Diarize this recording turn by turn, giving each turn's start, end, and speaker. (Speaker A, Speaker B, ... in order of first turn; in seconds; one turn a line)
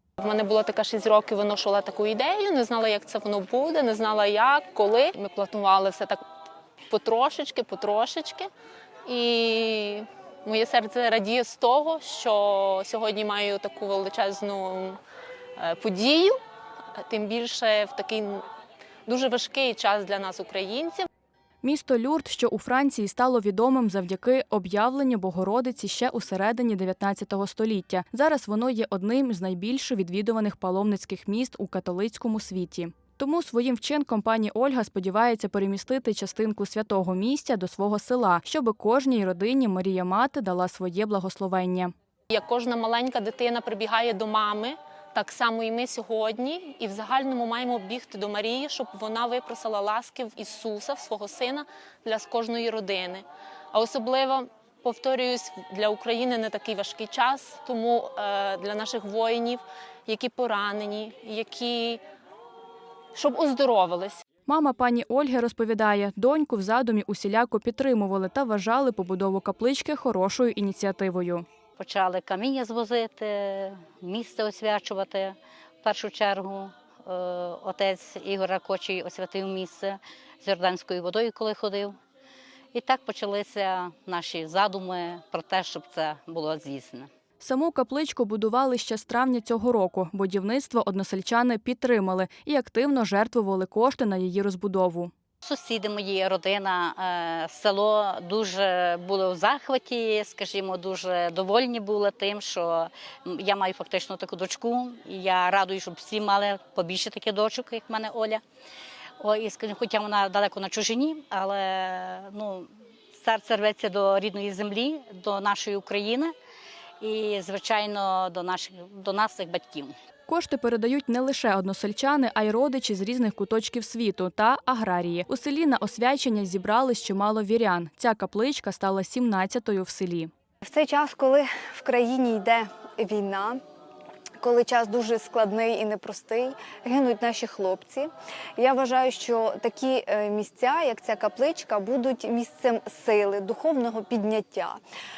Speaker A: 0.2-6.2
Speaker A: 6.9-8.5
Speaker A: 9.1-15.0
Speaker A: 15.6-16.4
Speaker A: 17.0-18.4
Speaker A: 19.1-21.1
Speaker B: 21.6-41.9
Speaker A: 42.3-62.0
Speaker A: 63.1-64.2
Speaker B: 64.5-71.4
Speaker C: 71.8-82.0
Speaker C: 82.7-87.1
Speaker B: 87.4-95.1
Speaker C: 95.4-108.4
Speaker C: 109.2-116.3
Speaker C: 117.0-119.9
Speaker B: 120.3-130.3
Speaker D: 130.6-133.6
Speaker D: 134.4-144.8